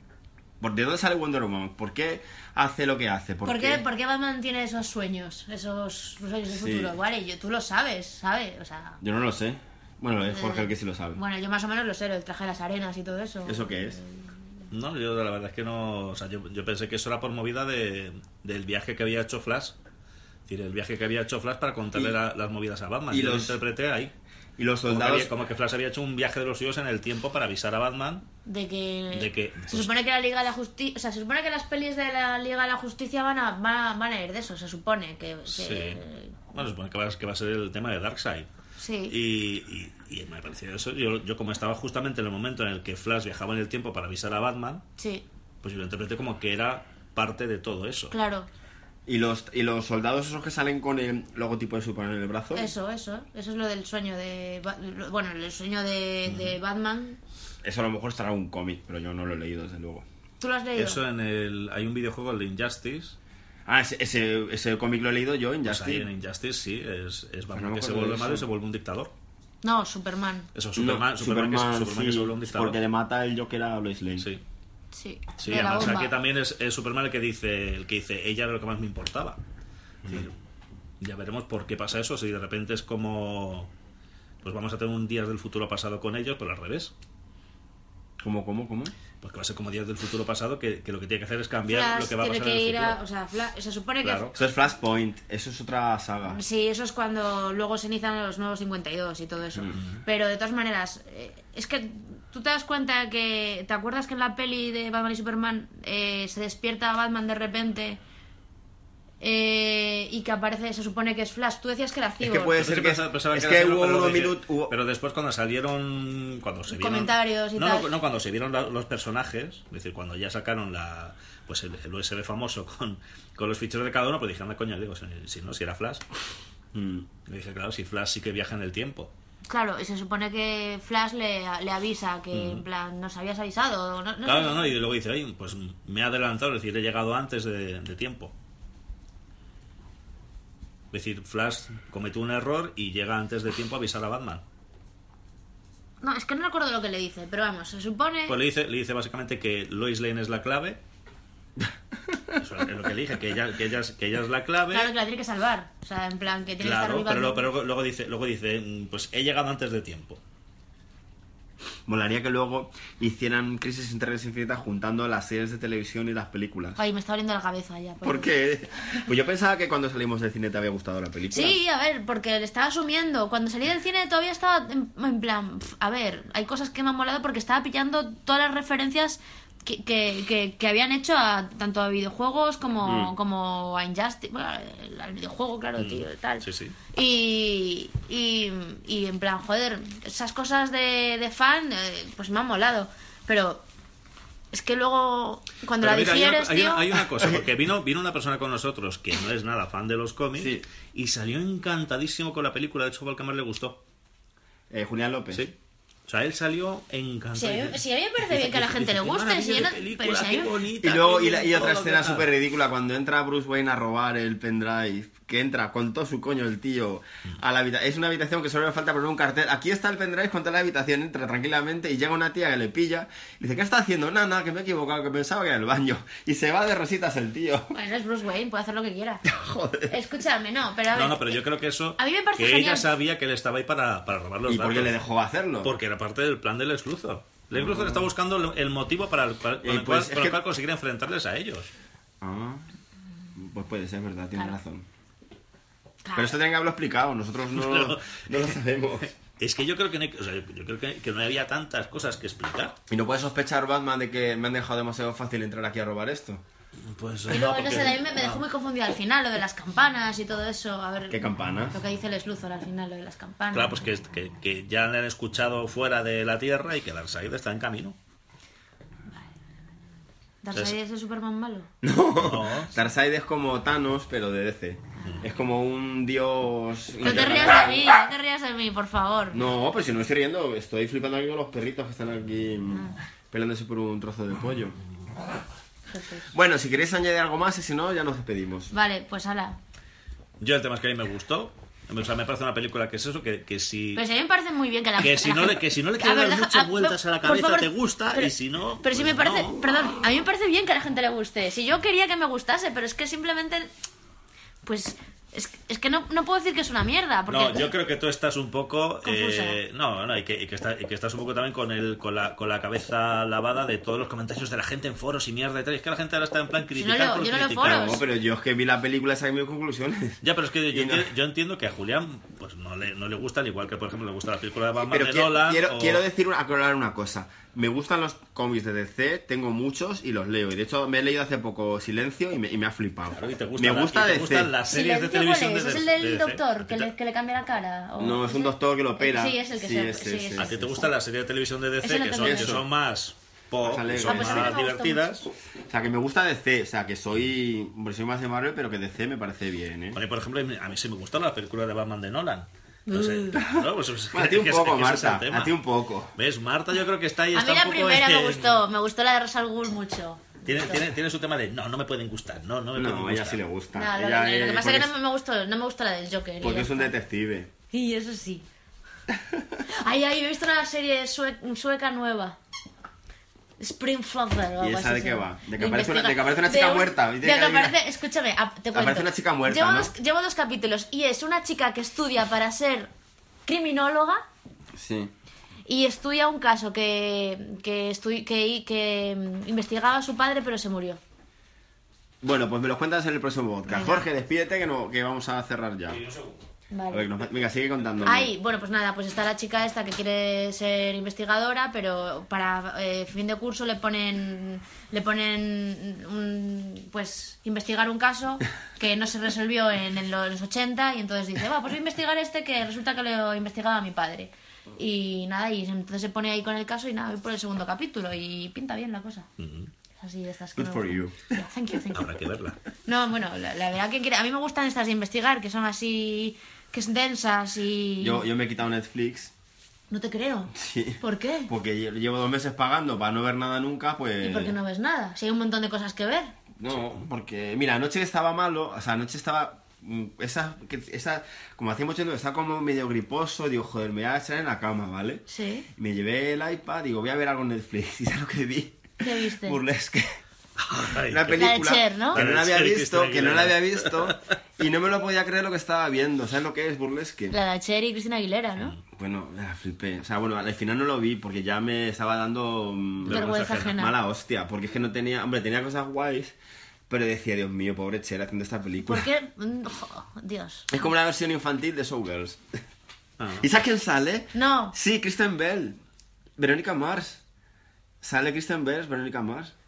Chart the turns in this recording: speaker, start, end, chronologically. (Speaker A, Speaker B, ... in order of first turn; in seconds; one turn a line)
Speaker A: 0.6-3.8
Speaker B: 3.4-9.0
Speaker A: 6.5-6.9
Speaker A: 9.0-11.2
Speaker B: 10.3-14.2
Speaker A: 13.4-14.0
Speaker C: 14.7-19.8
Speaker C: 20.5-24.1
Speaker A: 23.1-23.6
Speaker A: 24.6-25.3
Speaker C: 24.9-28.2
Speaker B: 28.4-36.4
Speaker C: 29.1-29.9
Speaker C: 35.5-36.0
Speaker C: 36.5-38.5
Speaker B: 38.8-39.1
Speaker C: 39.1-44.8
Speaker B: 45.0-45.2
Speaker C: 45.6-48.1
Speaker B: 48.1-48.5
Speaker A: 49.0-52.7
Speaker B: 52.5-57.2
Speaker C: 56.2-56.6
Speaker A: 57.6-60.0
Speaker B: 60.4-61.0
Speaker C: 60.8-63.1
Speaker A: 63.6-66.1
Speaker C: 65.7-69.1
Speaker A: 67.5-68.4
Speaker B: 69.6-70.5
Speaker C: 70.5-72.8
Speaker A: 70.8-74.3
Speaker B: 74.9-76.1
Speaker C: 75.4-79.4
Speaker C: 80.0-80.3
Speaker C: 81.0-83.7
Speaker C: 84.4-86.9
Speaker A: 88.2-88.9
Speaker C: 89.2-93.0
Speaker B: 91.7-94.3
Speaker C: 94.0-94.3
Speaker A: 94.3-96.4
Speaker B: 96.3-108.0
Speaker B: 109.2-112.6
Speaker A: 112.2-114.7
Speaker C: 112.5-126.0
Speaker B: 116.7-117.9
Speaker A: 126.7-127.1
Speaker C: 127.2-129.1
Speaker B: 129.5-134.7
Speaker C: 132.3-132.6
Speaker C: 134.2-138.3
Speaker C: 140.9-144.4
Speaker B: 146.0-148.3
Speaker C: 148.3-150.8
Speaker A: 152.1-152.4
Speaker C: 152.4-154.9
Speaker B: 154.7-157.5
Speaker C: 156.6-160.2
Speaker A: 161.9-166.8
Speaker B: 166.8-168.3
Speaker A: 168.0-171.6
Speaker B: 171.3-193.6
Speaker A: 182.8-183.1
Speaker C: 185.8-186.8
Speaker B: 194.5-196.9
Speaker C: 195.8-203.8
Speaker A: 200.4-200.6
Speaker A: 204.7-205.5
Speaker C: 206.1-212.3
Speaker B: 207.3-210.5
Speaker A: 210.8-227.7
Speaker B: 227.7-229.2
Speaker A: 229.2-230.0
Speaker B: 229.9-231.4
Speaker C: 230.9-234.9
Speaker B: 232.0-232.9
Speaker A: 234.5-235.7
Speaker C: 235.6-241.7
Speaker A: 237.5-238.1
Speaker A: 239.6-240.4
Speaker A: 242.2-242.6
Speaker A: 243.3-244.8
Speaker B: 246.0-246.3
Speaker A: 246.1-249.1
Speaker C: 247.5-248.6
Speaker C: 249.3-252.8
Speaker A: 252.9-256.4
Speaker C: 256.8-258.4
Speaker B: 257.3-263.8
Speaker A: 261.1-261.8
Speaker C: 263.5-267.9
Speaker B: 270.4-271.7
Speaker A: 271.8-277.9
Speaker C: 272.2-272.8
Speaker B: 277.0-279.4
Speaker C: 277.1-277.6
Speaker A: 279.3-284.8
Speaker B: 285.9-286.3
Speaker A: 286.3-288.7
Speaker B: 288.7-289.6
Speaker C: 290.4-294.0
Speaker B: 293.9-303.7
Speaker C: 295.0-299.6
Speaker B: 304.6-307.7
Speaker C: 307.3-317.9
Speaker B: 309.0-309.6
Speaker B: 316.8-318.0
Speaker A: 317.6-320.2
Speaker C: 320.2-326.0
Speaker A: 320.7-321.1
Speaker A: 324.8-334.5
Speaker C: 333.1-336.9
Speaker B: 334.7-340.9
Speaker A: 338.0-340.7
Speaker C: 340.4-345.3
Speaker B: 341.8-342.6
Speaker A: 342.2-342.6
Speaker A: 343.6-344.6
Speaker B: 344.0-345.2
Speaker A: 345.7-350.0
Speaker C: 349.9-355.6
Speaker B: 352.9-353.4
Speaker A: 353.4-356.1
Speaker C: 356.1-358.6
Speaker B: 357.3-360.8
Speaker C: 360.4-363.4
Speaker A: 362.7-364.9
Speaker B: 363.7-366.9
Speaker A: 366.4-367.5
Speaker B: 367.7-368.4
Speaker A: 369.1-369.6
Speaker B: 369.7-372.4
Speaker B: 373.6-382.9
Speaker A: 374.6-377.8
Speaker A: 378.7-379.9
Speaker B: 383.4-384.2
Speaker A: 384.7-385.1
Speaker B: 385.6-391.0
Speaker A: 392.2-396.0
Speaker B: 393.7-394.0
Speaker C: 395.9-396.4
Speaker B: 396.7-397.1
Speaker A: 396.9-398.3
Speaker B: 398.0-419.3
Speaker C: 419.4-419.7
Speaker B: 420.0-422.1
Speaker A: 420.6-421.4
Speaker C: 421.9-422.6
Speaker B: 422.9-428.2
Speaker A: 428.0-429.3
Speaker B: 429.9-431.5
Speaker A: 430.5-434.6
Speaker B: 434.2-436.3
Speaker A: 436.6-450.2
Speaker B: 445.3-445.7
Speaker B: 449.0-449.6
Speaker C: 450.6-451.5
Speaker A: 451.0-457.4
Speaker B: 451.3-452.2
Speaker C: 452.1-454.3
Speaker B: 457.3-458.8
Speaker A: 458.9-466.4
Speaker C: 463.1-463.7
Speaker B: 463.1-463.9
Speaker A: 466.9-469.1
Speaker B: 468.8-470.8
Speaker A: 470.7-472.4
Speaker C: 473.2-473.4
Speaker A: 473.4-475.8
Speaker B: 474.3-474.7
Speaker A: 476.4-477.2
Speaker A: 478.0-479.5